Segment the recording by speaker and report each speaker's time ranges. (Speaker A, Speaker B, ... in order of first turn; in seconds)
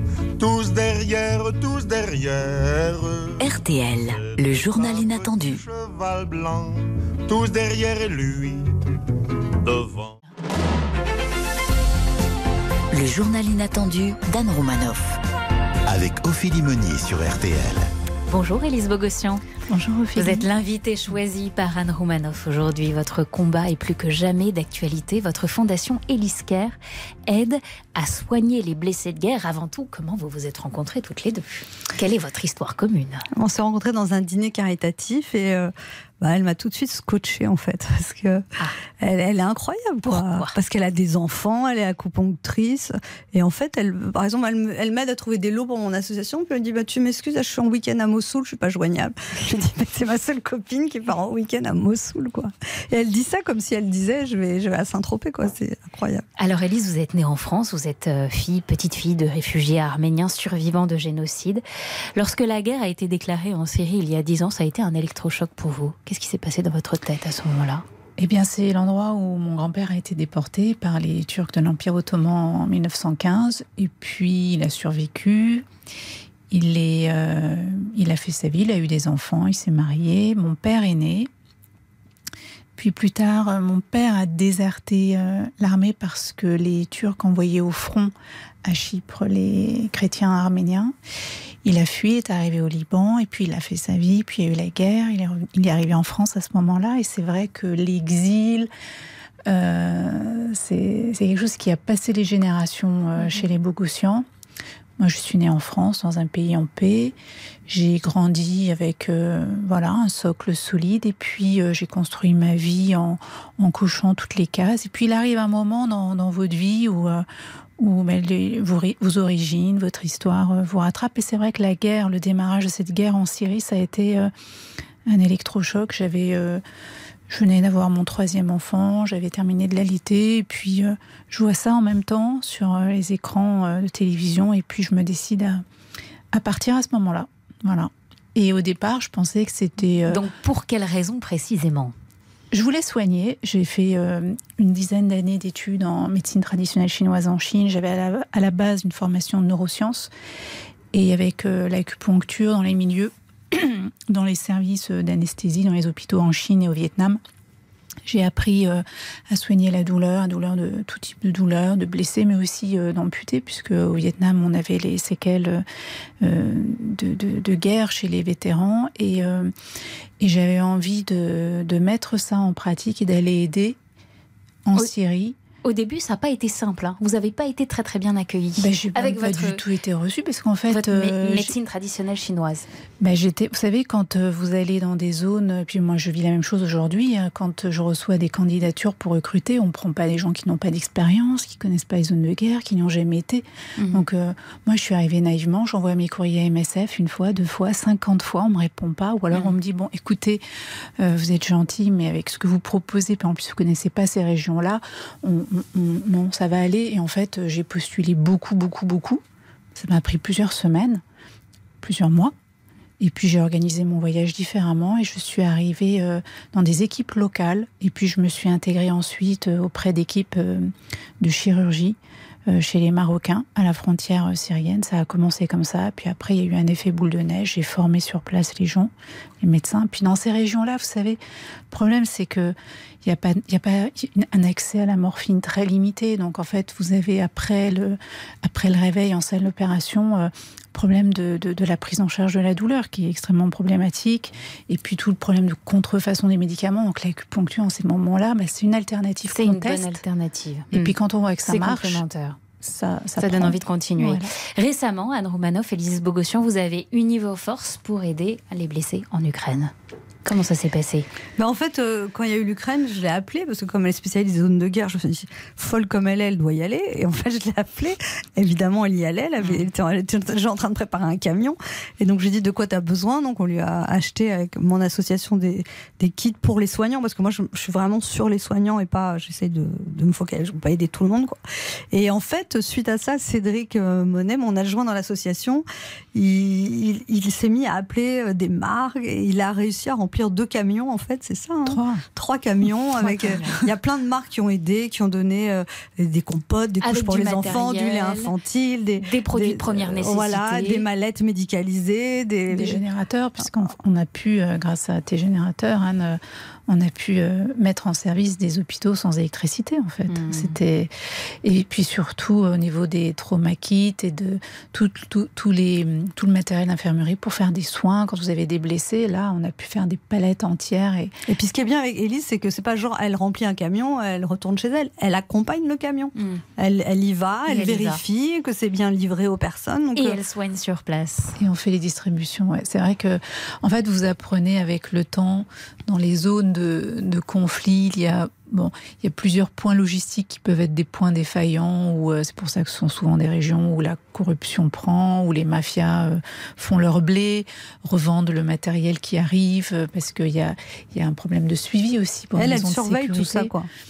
Speaker A: 0.4-3.4, 4.2-8.6, 9.6-10.1
Speaker B: 3.4-5.6, 12.9-15.2
Speaker C: 15.9-17.9
Speaker D: 18.3-19.4, 20.1-33.2, 40.0-40.5, 56.4-61.6, 62.1-67.8, 103.2-103.5, 140.1-141.9, 175.6-179.6, 180.7-182.7, 193.8-194.0, 249.3-250.9, 251.4-252.4, 253.2-259.7, 260.2-261.1, 269.4-269.7, 293.0-293.7, 296.8-298.3, 299.0-300.8, 310.1-310.6, 326.1-326.4, 327.5-328.0, 329.9-331.4
Speaker E: 19.7-20.4, 68.2-75.7, 76.5-81.3, 82.8-88.1, 88.6-90.9, 91.6-98.7, 99.5-104.2, 105.0-107.1, 107.7-117.2, 117.8-124.3, 125.1-126.6, 127.3-135.6, 136.3-140.2, 142.5-150.1, 150.9-157.2, 158.1-165.6, 166.2-169.5, 170.2-173.8, 174.7-175.3, 178.6-181.5, 183.0-200.4, 201.0-209.2, 209.7-211.0, 211.8-212.3, 213.0-231.2, 231.7-250.0, 250.7-252.0, 252.6-254.3, 291.7-292.0, 302.5-310.9, 311.4-321.1, 331.4-353.5
Speaker F: 33.3-38.4, 39.0-56.2, 261.4-281.4, 281.9-302.8, 321.3-330.2, 352.4-353.7